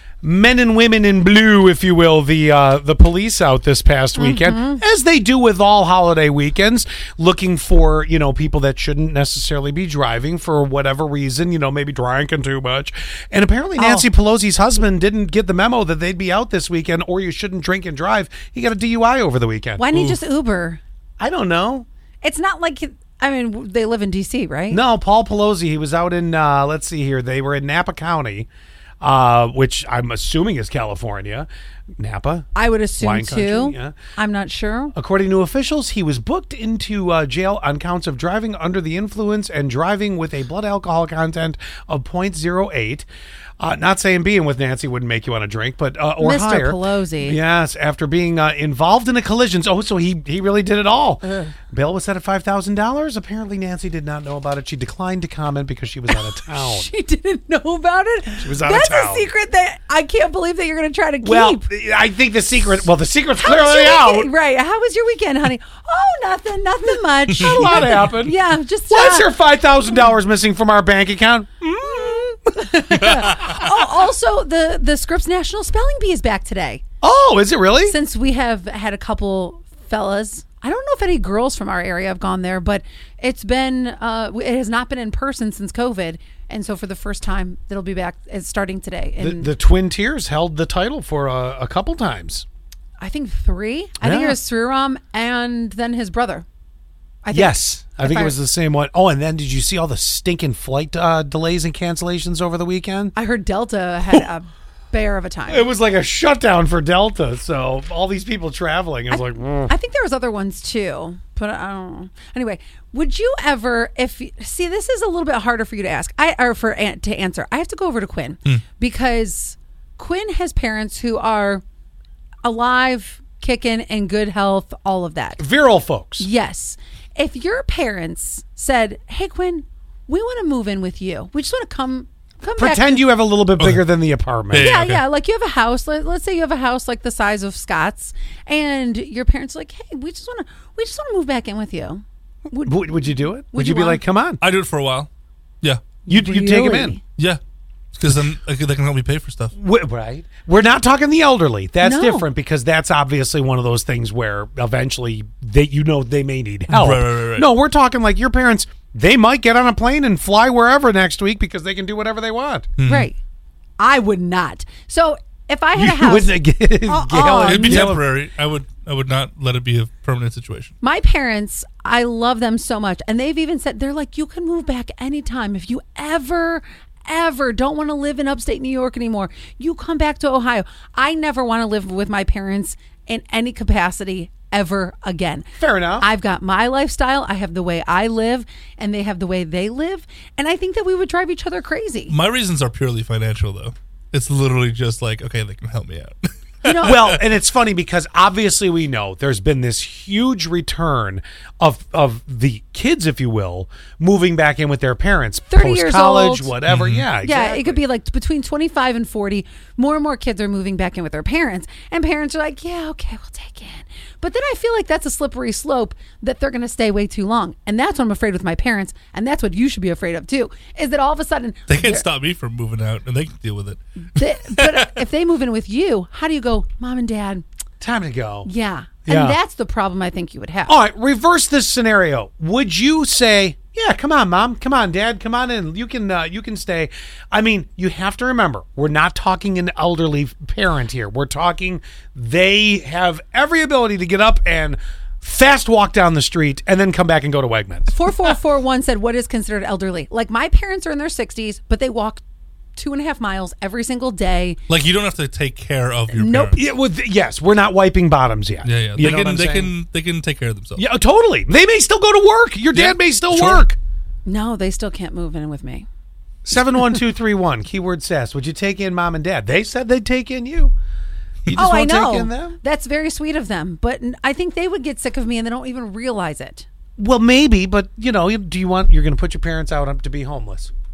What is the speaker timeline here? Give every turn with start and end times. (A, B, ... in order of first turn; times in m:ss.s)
0:00.2-0:19.9 A
0:04.2-0:04.8 B
0:13.8-0:14.1 B
0:19.8-0:20.8 B
0:21.2-0:21.9 A
0:22.2-0:24.8 B
0:24.7-0:28.5 A
0:29.0-0:31.5 A
0:32.0-0:32.5 A
0:32.6-0:34.9 B
0:33.0-0:34.0 A
0:34.9-0:43.1 A
0:43.6-0:56.9 A
0:46.2-0:47.4 B
0:56.1-1:01.6 B
0:58.3-0:59.3 A
1:01.2-1:04.3 A
1:03.4-1:09.3 B
1:07.3-1:08.4 A
1:08.9-1:12.4 A
1:11.9-1:16.8 B
1:17.0-1:18.0 A
1:17.9-1:29.5 B
1:29.2-1:32.4 A
1:33.0-1:36.4 B
1:34.0-1:34.4 A
1:37.2-1:38.4 B
1:37.3-1:43.1 A
1:43.2-1:45.7 B
1:45.5-1:49.7 A
1:49.1-2:01.6 B
2:02.4-2:05.4 B
2:05.4-2:06.3 A
2:06.2-2:13.0 B
2:12.6-2:14.7 A
2:13.6-2:13.9 C
2:14.5-2:15.0 C
2:14.5-2:22.8 B
2:22.6-2:24.4 A
2:23.5-2:24.0 B
2:24.4-2:25.1 C
2:26.1-2:27.0 A
2:26.1-2:27.0 B
2:28.0-2:29.5 C
2:29.5-2:42.7 A
2:31.8-2:32.2 B
2:36.7-2:37.5 C
2:42.8-2:43.1 C
2:42.8-2:43.2 B
2:43.8-2:48.0 B
2:45.8-2:48.0 A
2:47.4-2:50.7 C
2:50.8-3:12.1 B
3:05.6-3:06.1 A
3:12.1-3:17.2 C
3:16.6-3:17.0 B
3:16.8-3:27.8 A
3:25.5-3:26.5 B
3:26.7-3:27.1 C
3:27.2-3:42.0 B
3:41.7-3:45.0 C
3:44.2-3:47.4 B
3:47.8-3:48.5 A
3:48.4-3:50.7 B
3:49.0-3:49.4 A
3:50.7-4:08.0 A
4:07.9-4:12.2 B
4:12.8-4:14.6 B
4:14.7-4:16.6 C
4:16.1-4:16.6 B
4:16.5-4:19.7 A
4:18.6-4:20.8 C
4:20.8-4:23.8 A
4:22.7-4:23.6 C
4:24.2-4:25.9 B
4:26.4-4:30.7 A
4:31.5-4:32.6 A
4:31.6-4:36.7 B
4:37.0-4:40.7 A